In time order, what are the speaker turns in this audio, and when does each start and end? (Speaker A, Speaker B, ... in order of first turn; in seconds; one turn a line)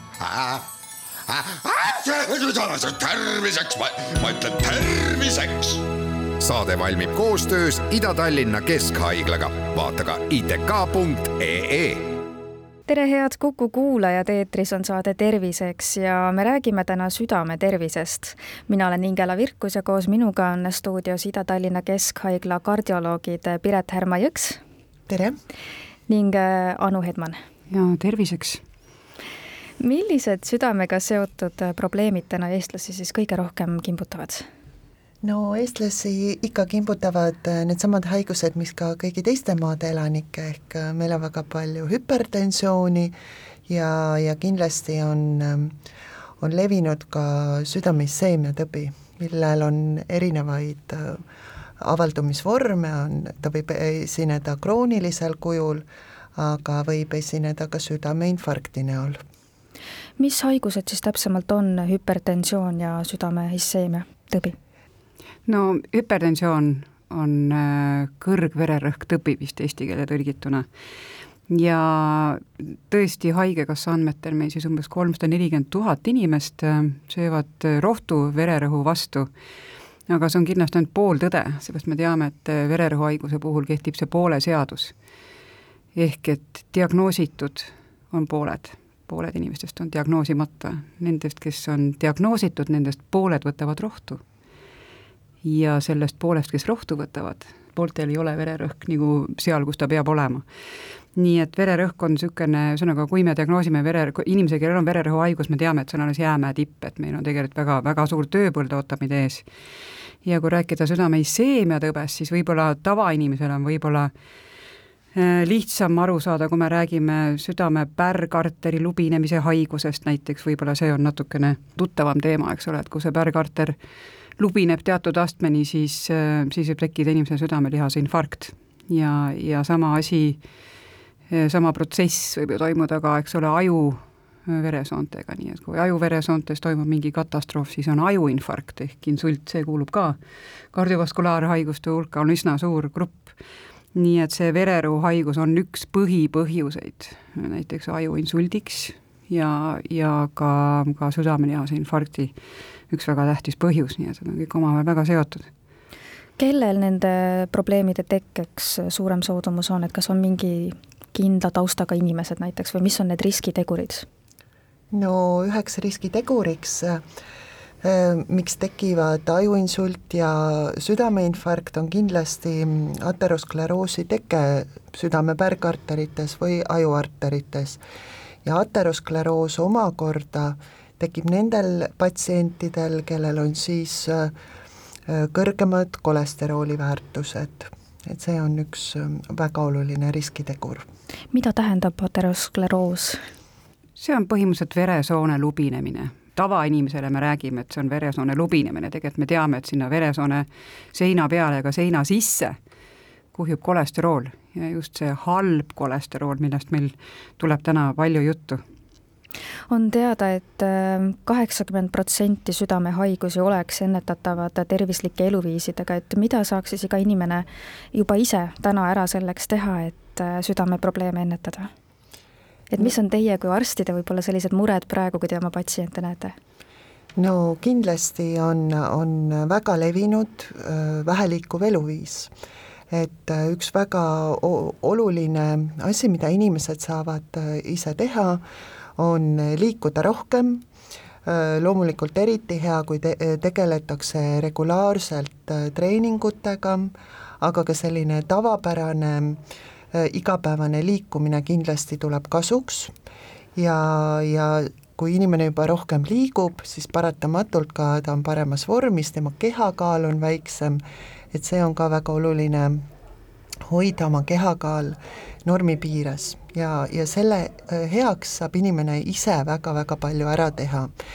Speaker A: 0.3-0.6
Speaker A: 1.3-5.8
Speaker B: 4.0-4.8
Speaker B: 6.4-12.1
Speaker C: 12.9-24.6
Speaker D: 25.1-25.4
Speaker C: 26.1-27.4
Speaker E: 27.7-28.6
Speaker C: 29.8-34.5
Speaker D: 35.2-43.1
Speaker D: 43.7-45.7
Speaker D: 46.4-51.2
Speaker D: 51.8-59.2
Speaker C: 60.2-64.5
Speaker E: 65.5-70.7
Speaker E: 71.5-79.3
Speaker E: 80.1-84.9
Speaker E: 85.9-94.2
Speaker E: 95.4-100.4
Speaker E: 101.2-109.5
Speaker E: 110.2-114.1
Speaker E: 115.1-123.8
Speaker E: 124.4-130.4
Speaker E: 131.3-140.2
Speaker E: 140.7-143.3
Speaker E: 143.9-152.3
Speaker E: 152.9-155.5
Speaker C: 156.4-164.1
Speaker D: 164.9-167.0
Speaker D: 167.8-177.8
Speaker D: 178.4-184.3
Speaker D: 185.1-190.8
Speaker C: 191.3-193.2
Speaker E: 194.0-202.6
Speaker E: 203.3-208.6
Speaker C: 209.7-221.7
Speaker C: 222.7-226.3
Speaker D: 227.2-232.3
Speaker D: 232.9-238.4
Speaker D: 239.0-240.6
Speaker D: 241.2-249.4
Speaker D: 249.9-252.9
Speaker D: 253.6-260.8
Speaker D: 261.3-262.8
Speaker D: 263.7-270.9